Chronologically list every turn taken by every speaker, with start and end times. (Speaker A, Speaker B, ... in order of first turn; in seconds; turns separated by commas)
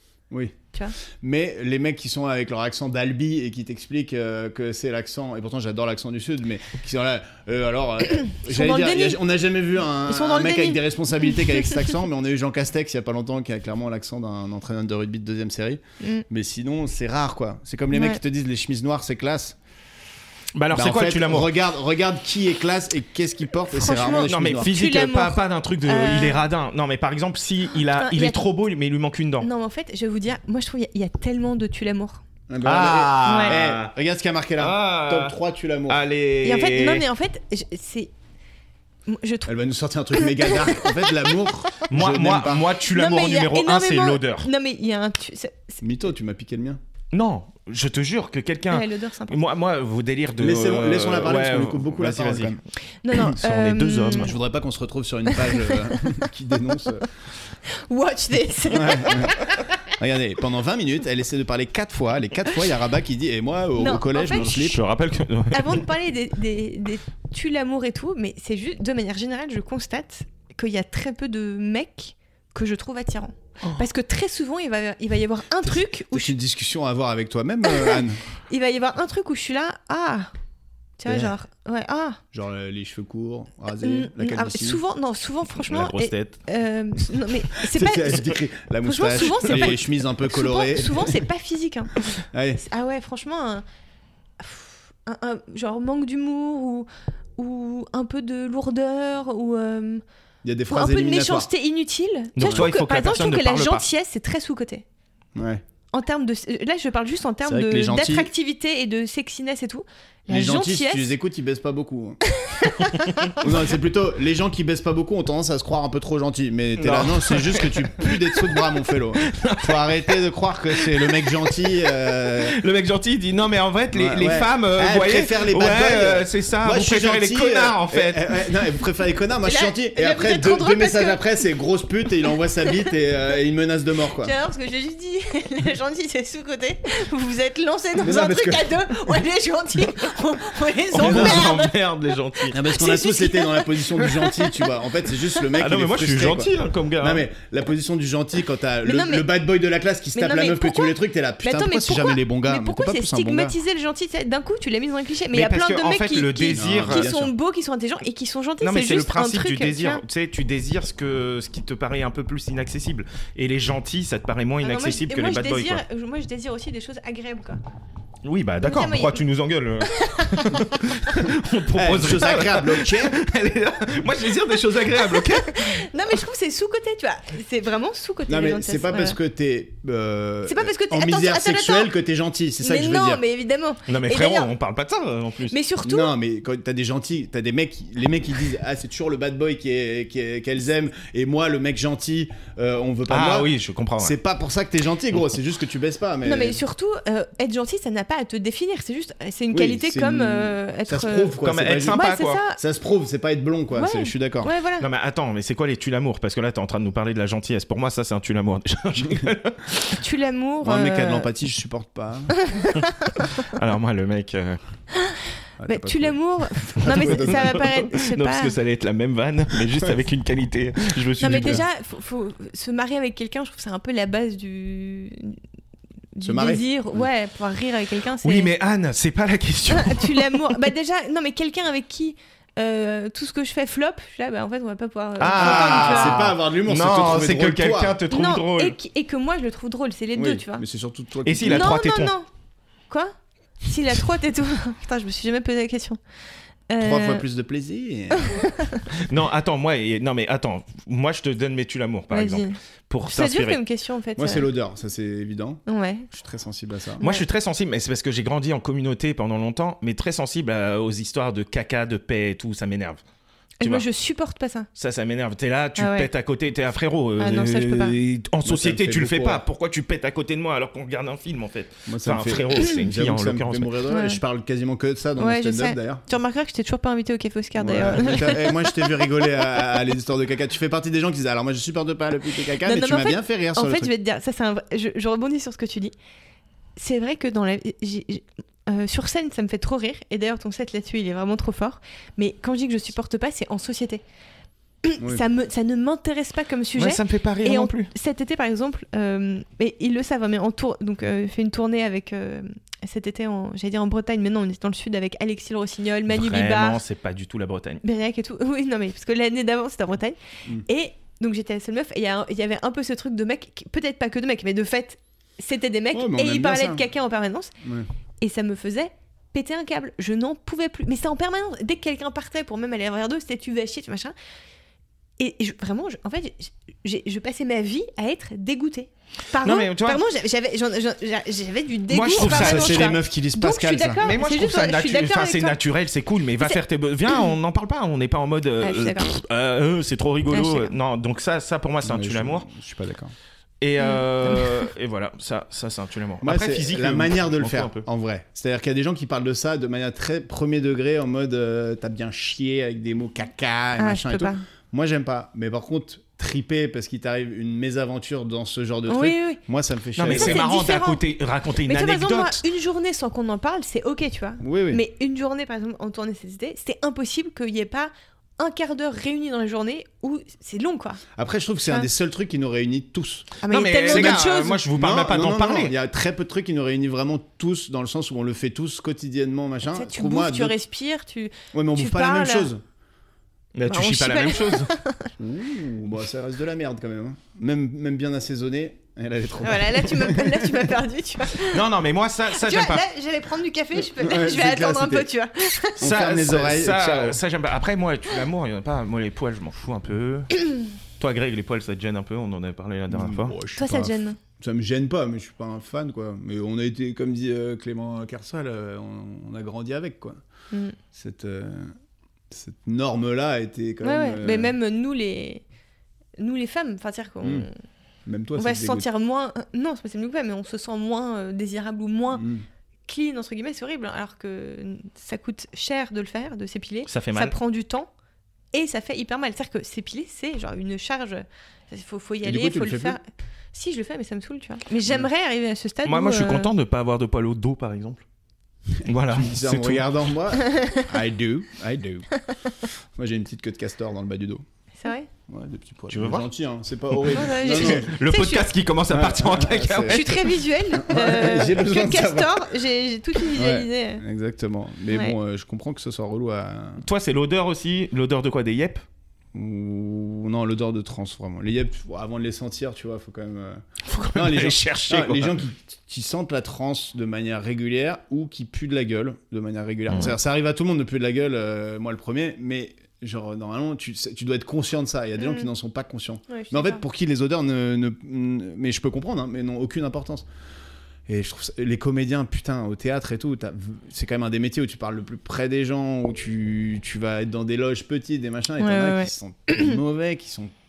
Speaker A: 0.3-0.6, Speaker A: 1.2-19.6, Speaker B: 8.3-9.2, Speaker B: 10.1-10.8, Speaker B: 17.9-18.2, Speaker C: 20.5-21.5, Speaker A: 20.7-24.7, Speaker B: 23.7-26.4, Speaker C: 24.0-29.5, Speaker B: 27.9-28.4, Speaker B: 29.4-32.2, Speaker A: 32.5-36.0, Speaker C: 32.6-33.9, Speaker B: 33.2-33.6, Speaker C: 34.6-35.4, Speaker C: 35.9-37.0, Speaker B: 36.4-38.1, Speaker B: 39.1-39.5, Speaker A: 39.5-42.7, Speaker B: 40.1-41.3, Speaker C: 41.9-44.5, Speaker B: 42.9-45.8, Speaker A: 45.8-46.8, Speaker C: 47.1-52.6, Speaker B: 48.7-49.4, Speaker A: 50.4-52.6, Speaker B: 53.0-54.3, Speaker C: 53.2-54.4, Speaker A: 54.1-57.1, Speaker B: 55.3-55.8, Speaker B: 57.7-59.4, Speaker A: 58.7-64.8, Speaker B: 63.8-64.5, Speaker C: 64.3-65.9, Speaker B: 65.5-76.3, Speaker A: 76.1-78.2, Speaker B: 77.7-80.3, Speaker B: 81.0-82.2, Speaker A: 81.0-81.3, Speaker A: 82.3-84.8, Speaker B: 83.8-91.9, Speaker C: 85.6-86.4, Speaker A: 87.7-91.2, Speaker A: 92.3-92.6, Speaker B: 92.6-93.6, Speaker B: 94.4-100.0, Speaker A: 100.4-101.5, Speaker B: 100.7-104.8, Speaker C: 102.3-103.9, Speaker A: 102.4-102.7, Speaker A: 105.3-105.6, Speaker B: 105.9-111.1, Speaker A: 107.4-108.3, Speaker A: 110.3-112.2, Speaker B: 112.4-113.3, Speaker C: 113.0-113.3, Speaker A: 113.4-122.6, Speaker C: 116.8-120.2, Speaker C: 120.7-128.3, Speaker A: 123.9-134.3, Speaker B: 129.4-131.2, Speaker B: 134.2-141.7, Speaker A: 138.0-139.1, Speaker C: 140.9-142.6, Speaker A: 140.9-141.5, Speaker A: 142.5-153.6, Speaker B: 142.6-144.6, Speaker C: 145.5-147.2, Speaker B: 148.8-149.3, Speaker B: 150.1-160.0, Speaker C: 155.3-157.1, Speaker A: 156.5-157.3, Speaker C: 158.6-165.8, Speaker B: 164.6-167.6, Speaker C: 168.2-175.8, Speaker B: 168.6-169.2, Speaker B: 169.9-170.8, Speaker A: 171.7-173.2, Speaker B: 175.0-179.2, Speaker A: 178.3-183.2, Speaker B: 180.4-181.9, Speaker B: 182.6-184.5, Speaker C: 183.9-185.5, Speaker B: 185.5-186.1, Speaker A: 185.8-196.6, Speaker C: 193.1-194.1, Speaker B: 196.2-201.4, Speaker A: 199.5-202.0, Speaker C: 201.4-202.4, Speaker B: 201.9-202.6, Speaker A: 202.6-204.5, Speaker B: 203.7-204.8, Speaker C: 204.8-210.0, Speaker B: 210.0-211.3, Speaker A: 210.6-212.3, Speaker B: 212.4-213.2, Speaker C: 213.3-214.6, Speaker A: 215.6-216.2, Speaker B: 215.7-218.5, Speaker A: 216.8-217.6, Speaker C: 216.9-221.6, Speaker B: 221.2-225.4, Speaker A: 221.3-221.6, Speaker B: 226.1-228.5, Speaker A: 226.2-226.6, Speaker C: 228.2-230.5, Speaker B: 229.7-236.2, Speaker C: 235.2-238.8, Speaker A: 235.3-238.0, Speaker B: 238.1-240.6, Speaker A: 240.2-241.8, Speaker C: 241.2-242.1, Speaker B: 241.4-242.3, Speaker B: 242.9-246.0, Speaker B: 246.7-247.2, Speaker A: 246.8-248.4, Speaker B: 248.2-248.8, Speaker C: 248.9-253.6, Speaker B: 252.1-252.6, Speaker B: 253.1-254.5, Speaker A: 254.2-257.0, Speaker B: 255.7-256.1, Speaker B: 257.0-257.2, Speaker C: 257.0-263.0, Speaker B: 263.6-264.7, Speaker C: 264.8-273.7, Speaker B: 265.8-266.1, Speaker B: 267.2-267.9, Speaker A: 268.4-269.4, Speaker A: 271.9-276.0, Speaker B: 273.9-274.2, Speaker B: 275.2-278.9, Speaker A: 277.6-283.9, Speaker B: 282.6-285.9, Speaker B: 286.8-294.0, Speaker B: 294.8-306.8, Speaker C: 296.8-297.9, Speaker C: 306.1-307.8, Speaker B: 307.8-317.5, Speaker A: 315.9-316.8, Speaker A: 317.6-317.9, Speaker B: 318.2-324.1, Speaker B: 325.2-335.6, Speaker C: 329.4-330.0, Speaker C: 331.9-332.9, Speaker A: 332.1-334.0, Speaker C: 334.0-342.4, Speaker B: 338.6-339.1, Speaker B: 340.3-340.7, Speaker A: 341.8-343.1, Speaker C: 343.6-347.8, Speaker B: 343.8-344.7, Speaker A: 346.2-360.4, Speaker B: 353.8-354.4, Speaker B: 358.9-359.4, Speaker C: 360.0-362.4, Speaker B: 360.0-361.0, Speaker B: 361.6-371.0, Speaker A: 364.4-364.8, Speaker A: 371.1-380.5, Speaker B: 373.4-374.6, Speaker C: 373.5-375.7, Speaker B: 379.7-382.5, Speaker A: 381.5-382.6, Speaker C: 383.5-384.7, Speaker B: 383.7-385.1, Speaker A: 385.2-390.7, Speaker B: 389.4-391.6, Speaker C: 391.3-392.8, Speaker B: 392.4-395.9, Speaker A: 393.9-395.1, Speaker A: 395.8-397.2, Speaker C: 395.8-400.4, Speaker C: 401.0-403.4, Speaker A: 402.9-410.2, Speaker B: 403.5-404.2, Speaker B: 410.5-410.8, Speaker A: 410.9-411.7, Speaker A: 412.3-414.5, Speaker B: 413.8-415.4, Speaker B: 416.2-417.5, Speaker A: 417.2-417.5, Speaker A: 418.1-418.9, Speaker B: 418.4-422.3, Speaker A: 422.1-422.4, Speaker B: 422.9-427.9, Speaker C: 426.9-427.3, Speaker B: 428.5-433.0, Speaker A: 432.2-433.0, Speaker B: 433.5-436.5, Speaker C: 435.8-438.0, Speaker C: 438.8-439.8, Speaker A: 439.1-442.1, Speaker B: 440.4-440.8, Speaker A: 442.9-444.4, Speaker B: 444.8-445.1, Speaker A: 445.3-447.9, Speaker C: 445.9-446.2, Speaker C: 447.0-450.3, Speaker B: 447.1-448.4, Speaker A: 448.9-450.1, Speaker B: 449.9-454.0, Speaker A: 450.7-452.4, Speaker A: 453.3-456.8, Speaker B: 454.9-455.1, Speaker C: 456.8-458.8, Speaker A: 459.3-463.6, Speaker C: 463.9-465.4, Speaker A: 464.1-480.2, Speaker B: 475.2-475.5, Speaker B: 476.3-476.8, Speaker A: 481.1-490.5, Speaker B: 488.6-489.7